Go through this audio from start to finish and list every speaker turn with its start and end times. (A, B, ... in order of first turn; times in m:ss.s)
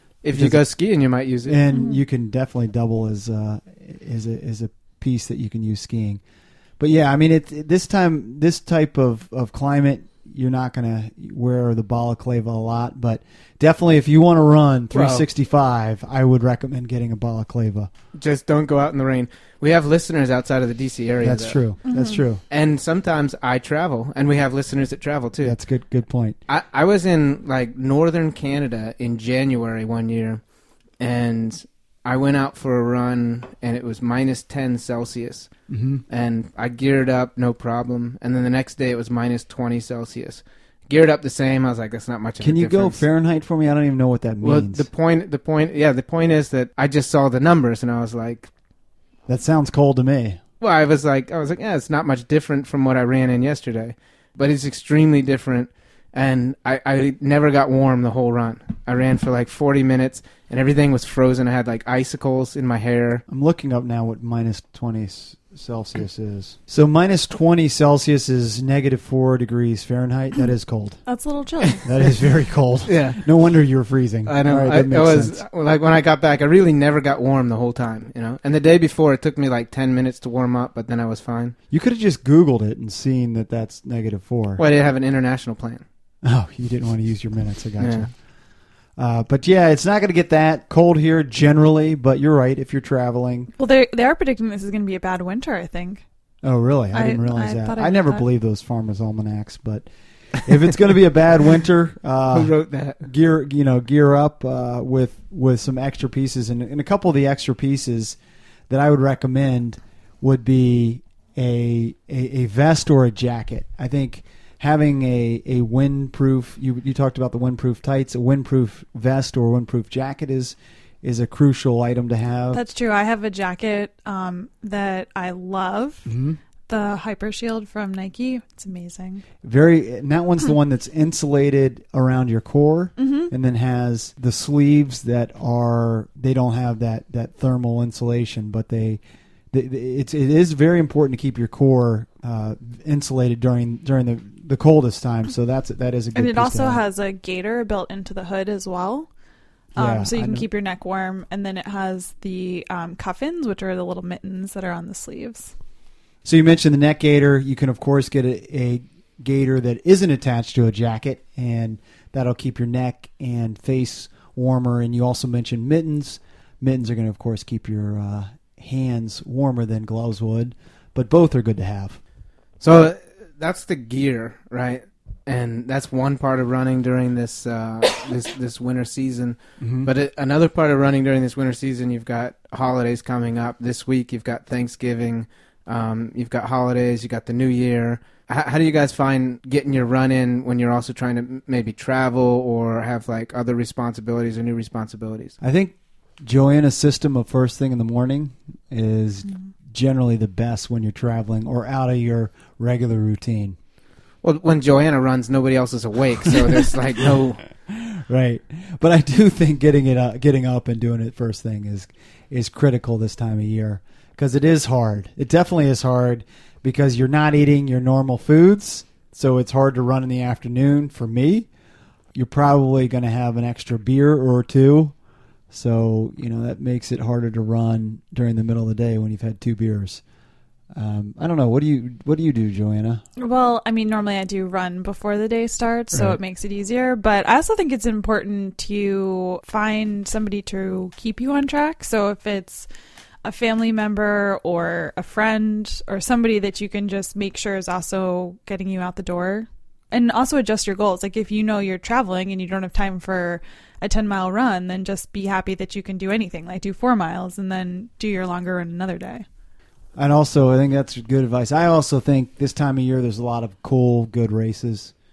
0:00.2-0:01.6 A
0:00.3-0:00.6 B
0:01.5-0:06.2 B
0:01.7-0:02.0 C
0:06.8-0:17.9 B
0:14.9-0:15.3 A
0:18.2-0:21.6 A
0:21.2-0:22.4 B
0:21.8-0:22.2 C
0:22.5-0:25.6 A
0:25.4-0:26.4 B
0:26.5-0:30.4 A
0:31.0-0:35.5 A
0:35.7-0:36.0 B
0:36.1-0:43.0 A
0:42.4-0:44.9 B
0:44.4-0:48.5 A
0:49.3-0:50.4 B
0:50.6-1:03.2 A
1:03.3-1:11.0 B
1:11.1-1:11.8 C
1:11.8-1:15.4 B
1:12.9-1:13.2 A
1:14.3-1:21.6 A
1:21.7-1:24.6 B
1:24.6-1:25.8 A
1:26.2-1:28.1 B
1:27.8-1:28.1 A
1:29.0-1:33.5 B
1:33.6-1:36.0 C
1:36.4-1:39.9 B
1:36.9-1:38.2 C
1:40.4-1:48.2 B
1:42.3-1:43.0 A
1:48.7-2:02.6 B
2:02.5-2:06.1 C
2:06.1-2:06.4 B
2:06.7-2:09.2 C
2:09.4-2:19.0 B
2:13.0-2:13.3 C
2:19.5-2:26.8 B
2:26.2-2:29.1 C
2:29.7-2:35.5 C
2:29.8-2:30.5 B
2:36.2-2:52.0 B
2:52.6-3:15.3 A
2:59.6-2:59.9 B
3:15.4-3:23.6 B
3:24.2-3:27.4 A
3:27.7-3:41.5 B
3:42.1-3:44.9 B
3:45.5-3:50.0 B
3:50.7-3:53.0 B
3:53.2-4:02.7 C
3:55.9-3:56.2 B
4:03.2-4:19.3 C
4:20.0-4:24.9 B